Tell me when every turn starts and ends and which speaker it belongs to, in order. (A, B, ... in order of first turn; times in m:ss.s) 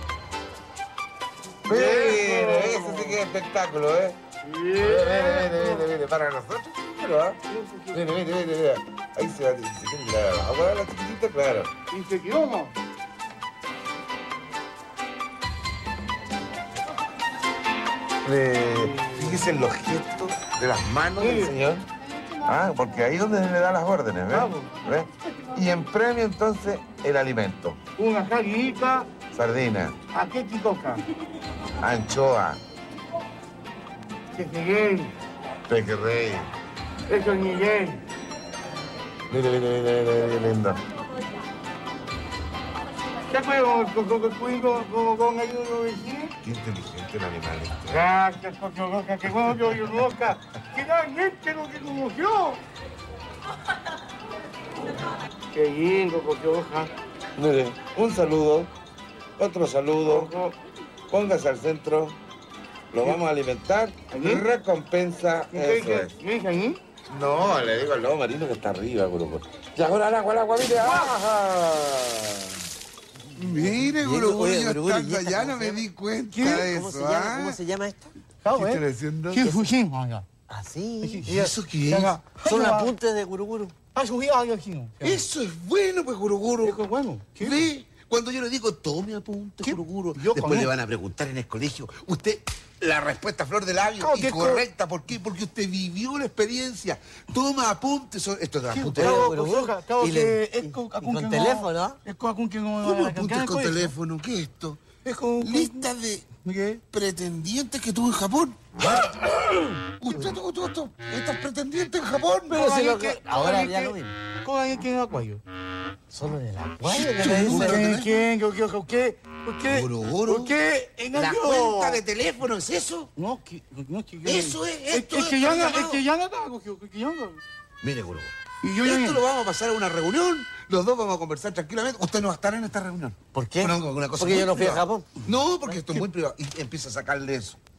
0:01.6-0:04.2 A
0:01.7-0:03.2 B
0:04.4-0:05.8 B
0:04.8-0:07.4 A
0:07.5-0:08.0 B
0:07.9-0:11.7 A
0:11.9-0:12.7 B
0:18.2-0:21.9 A
0:21.2-0:21.5 B
0:22.4-0:27.8 A
0:24.3-0:24.8 B
0:28.0-0:29.2 B
0:29.3-0:30.0 A
0:30.1-0:31.0 B
0:31.8-0:32.6 A
0:34.3-0:35.1 B
0:35.7-0:36.5 A
0:37.1-0:38.0 B
0:39.3-0:40.8 A
0:43.3-0:46.3 B
0:46.4-0:48.0 A
0:47.9-0:52.6 B
0:55.5-0:56.9 B
0:57.4-0:58.7 A
0:59.4-1:00.3 A
1:00.0-1:00.6 B
1:01.1-1:02.2 A
1:02.9-1:06.1 A
1:04.1-1:04.4 B
1:05.5-1:06.8 B
1:07.1-1:12.6 A
1:13.3-1:17.6 A
1:13.8-1:15.8 C
1:16.4-1:16.6 B
1:16.4-1:18.1 C
1:18.4-1:20.2 B
1:18.5-1:19.6 A
1:20.5-1:21.2 C
1:21.0-1:22.9 B
1:21.2-1:22.2 A
1:22.4-1:23.7 C
1:23.9-1:25.2 B
1:25.0-1:26.8 A
1:26.6-1:27.7 B
1:27.4-1:39.3 A
1:29.6-1:30.7 B
1:34.0-1:34.6 B
1:38.7-1:43.9 B
1:38.9-1:42.0 C
1:42.8-1:46.3 A
1:45.0-1:45.8 B
1:46.4-1:46.8 B
1:46.9-1:49.0 A
1:48.8-1:50.3 B
1:50.0-1:52.6 A
1:52.5-1:54.1 C
1:52.5-1:55.4 B
1:56.1-1:57.8 C
1:56.9-1:58.2 A
1:57.2-2:02.0 B
1:59.6-2:00.6 A
2:01.1-2:03.1 A
2:03.2-2:07.4 B
2:04.2-2:06.0 A
2:07.8-2:17.6 A
2:08.6-2:09.2 B
2:13.3-2:15.1 C